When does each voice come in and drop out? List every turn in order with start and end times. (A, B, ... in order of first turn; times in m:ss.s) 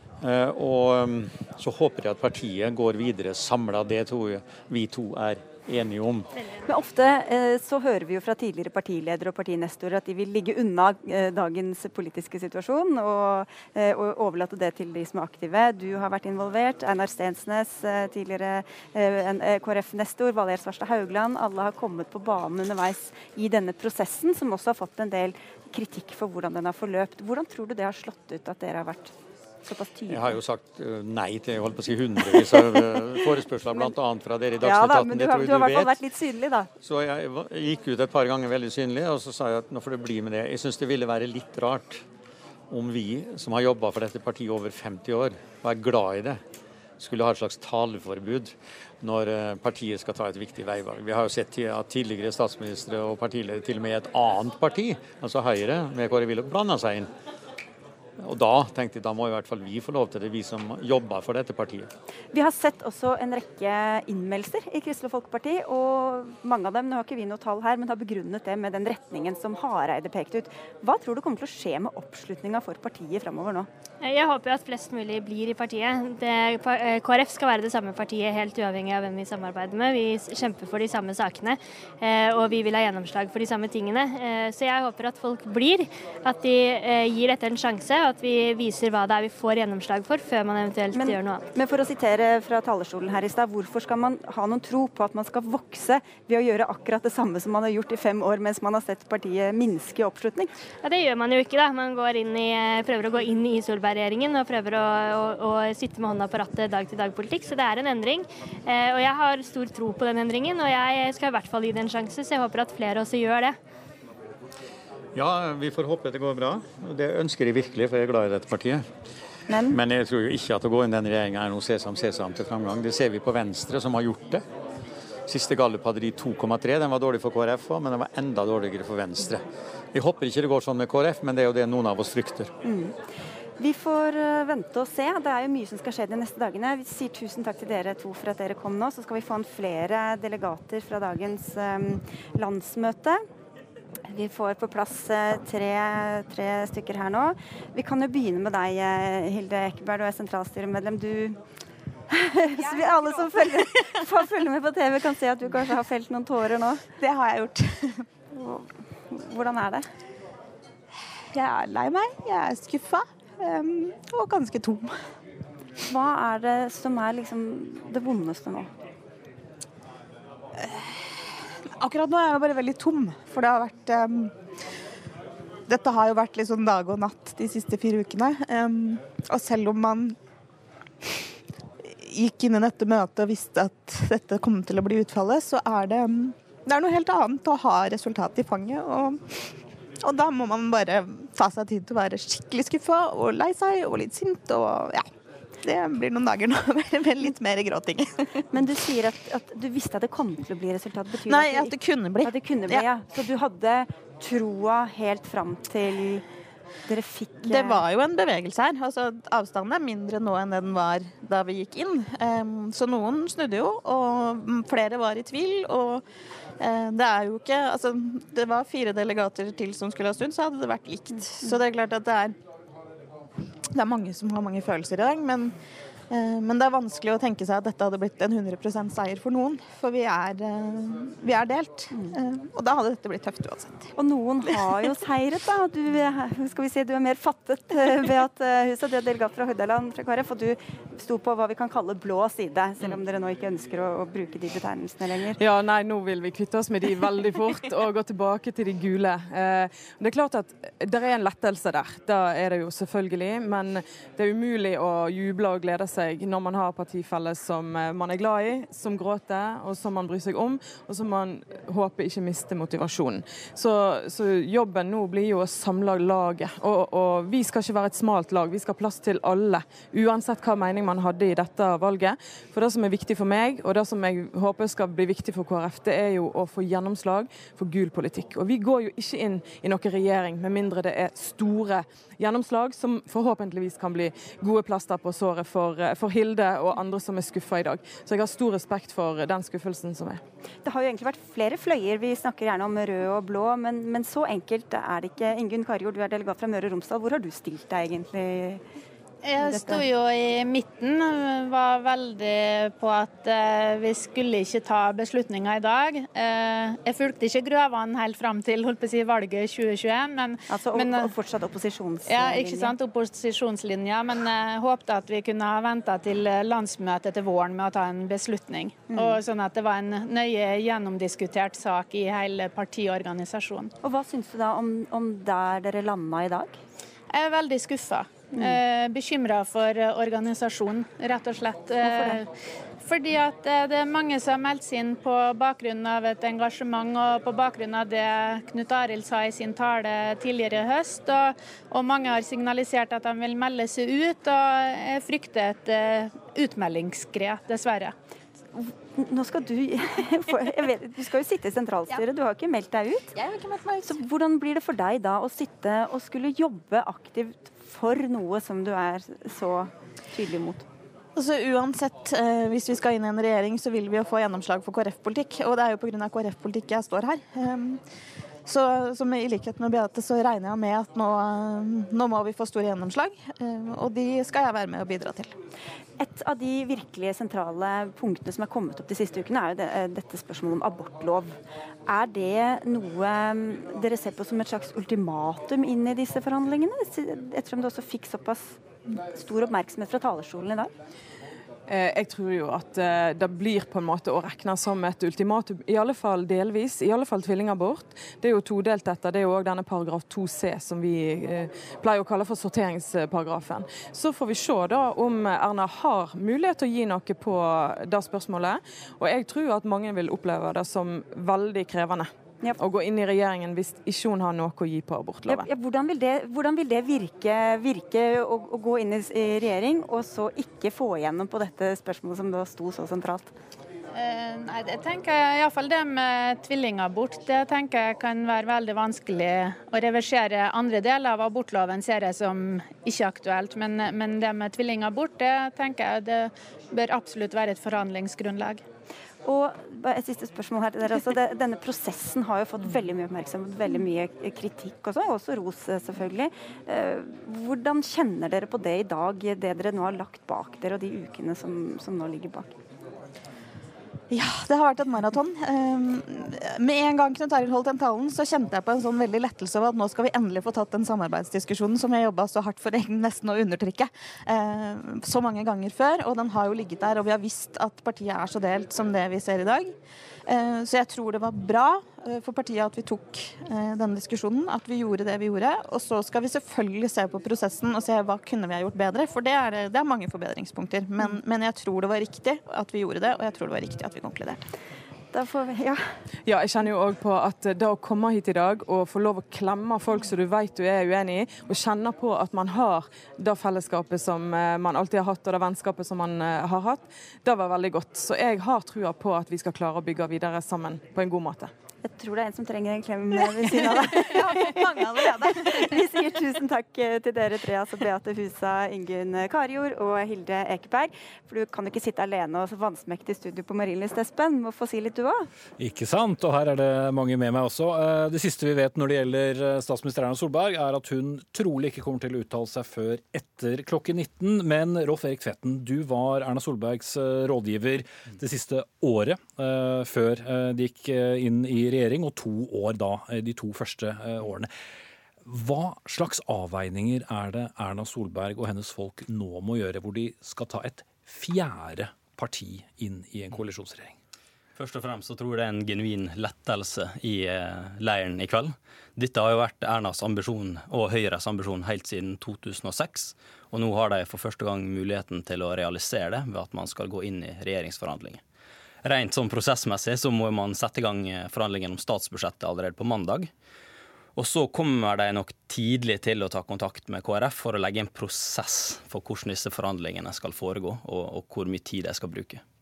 0:00.2-0:06.3 A
0:06.7-0:29.1 B
0:29.6-0:30.4 B
0:30.1-0:36.0 A
0:32.2-0:33.9 B
0:34.6-0:36.7 B
0:36.8-0:42.0 A
0:42.7-0:46.4 A
0:47.0-0:57.1 A
0:58.2-1:01.9 A
1:02.3-1:13.7 B
1:14.0-1:31.4 C
1:30.9-1:40.5 B
1:40.8-1:53.6 C
1:55.1-1:58.9 A
1:59.5-1:59.8 B
1:59.7-2:04.4 A
2:05.3-2:12.5 A
2:12.6-2:12.9 B
2:13.6-2:23.2 B
2:24.1-2:31.4 B
2:32.1-2:36.8 B
2:32.6-2:33.9 D
2:37.0-2:38.0 D
2:38.4-2:39.8 B
2:41.3-2:45.0 D
2:45.9-2:48.7 B
2:50.6-2:51.1 D
2:51.8-2:54.3 D
2:55.7-3:00.2 D
3:01.9-3:09.4 D
3:10.0-3:15.1 D
3:15.6-3:18.4 D
3:18.5-3:26.2 B
3:21.2-3:22.8 D
3:26.9-3:27.8 B
3:27.5-3:36.0 D
3:36.6-3:42.3 D
3:43.7-3:45.5 D
3:46.1-3:53.9 D
3:54.0-4:05.4 B
4:05.3-4:50.2 E
4:50.6-4:58.6 B
4:59.2-5:11.1 F
4:59.4-4:59.8 B
5:10.5-5:12.7 B
5:12.1-5:23.7 F
5:18.9-5:19.2 B
5:23.8-5:26.5 B
5:27.1-5:32.3 F
5:31.8-5:32.2 B
5:32.8-5:47.9 F
5:48.6-5:53.1 B
5:53.1-5:54.0 D
5:53.8-6:00.6 B
6:01.2-6:07.8 D
6:08.4-6:15.3 D
6:16.0-6:21.3 B
6:21.9-6:28.6 B
6:29.1-6:30.7 B
6:31.7-6:55.5 E
6:55.3-7:03.3 B
7:03.9-7:18.6 F
7:19.2-7:32.5 B
7:34.1-7:49.7 D
7:50.3-8:04.4 D
8:05.1-8:05.8 B
8:06.2-8:21.5 E
8:21.8-8:35.3 B
8:23.3-8:26.0 D
8:35.6-8:54.5 G
8:55.2-9:03.9 G
9:04.6-9:18.2 H
9:18.8-9:23.3 H
9:24.2-9:32.4 H